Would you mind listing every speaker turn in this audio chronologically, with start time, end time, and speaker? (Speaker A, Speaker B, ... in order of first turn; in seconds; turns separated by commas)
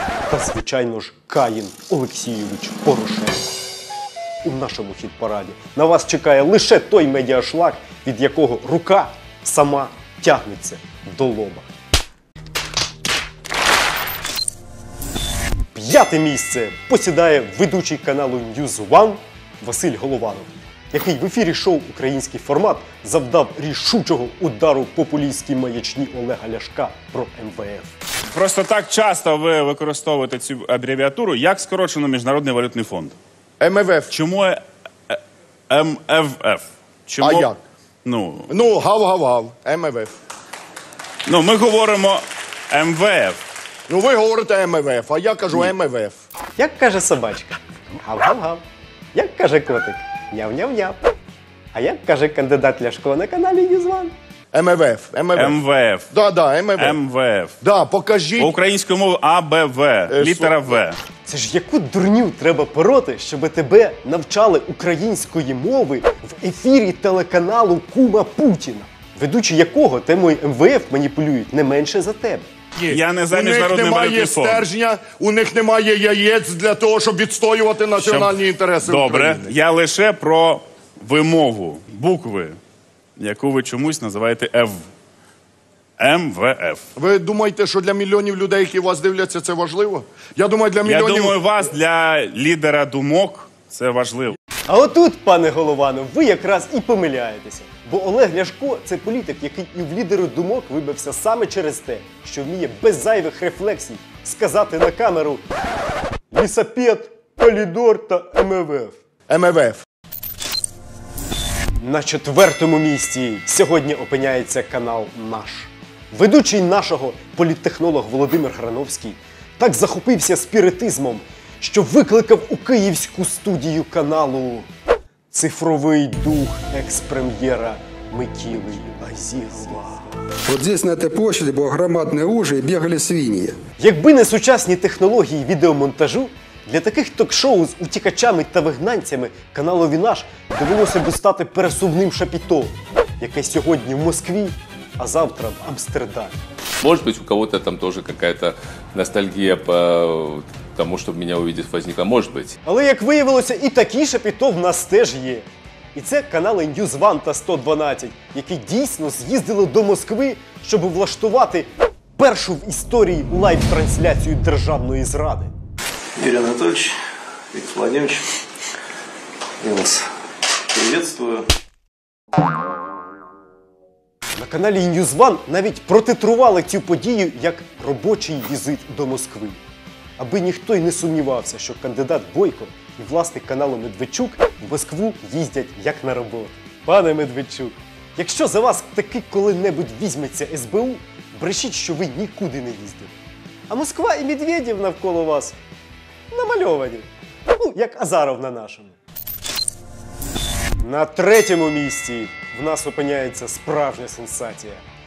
Speaker A: 0.3-3.5, Speaker A: 4.4-11.7, Speaker A: 15.7-27.9, Speaker B: 28.3-33.1, Speaker C: 33.6-34.1, Speaker B: 34.1-35.2, Speaker B: 35.7-37.5, Speaker C: 37.2-37.6, Speaker B: 38.0-38.5, Speaker C: 38.5-40.1, Speaker B: 41.3-43.4, Speaker C: 43.9-46.2, Speaker A: 46.5-48.6, Speaker A: 49.1-51.0, Speaker A: 51.7-54.1, Speaker C: 54.5-55.6, Speaker B: 55.3-56.1, Speaker C: 56.1-57.0, Speaker B: 56.8-57.5, Speaker C: 57.6-58.5, Speaker B: 58.4-61.0, Speaker C: 60.1-60.6, Speaker A: 61.2-72.5, Speaker C: 72.8-79.5, Speaker B: 72.9-74.7, Speaker B: 78.0-82.6, Speaker B: 83.2-84.8, Speaker B: 86.0-86.8, Speaker C: 87.0-91.4, Speaker B: 90.8-94.4, Speaker A: 94.7-105.4, Speaker A: 106.3-109.0, Speaker C: 109.3-109.8, Speaker A: 111.8-124.7, Speaker A: 125.3-130.2, Speaker D: 130.4-133.6, Speaker A: 133.8-146.3, Speaker E: 146.8-152.5, Speaker A: 152.6-165.5, Speaker F: 166.2-166.9, Speaker F: 167.5-168.2, Speaker F: 169.6-170.0, Speaker F: 170.7-171.4, Speaker A: 174.3-179.6, Speaker A: 180.2-193.2, Speaker A: 193.7-195.6, Speaker A: 196.3-198.9, Speaker A: 200.8-204.8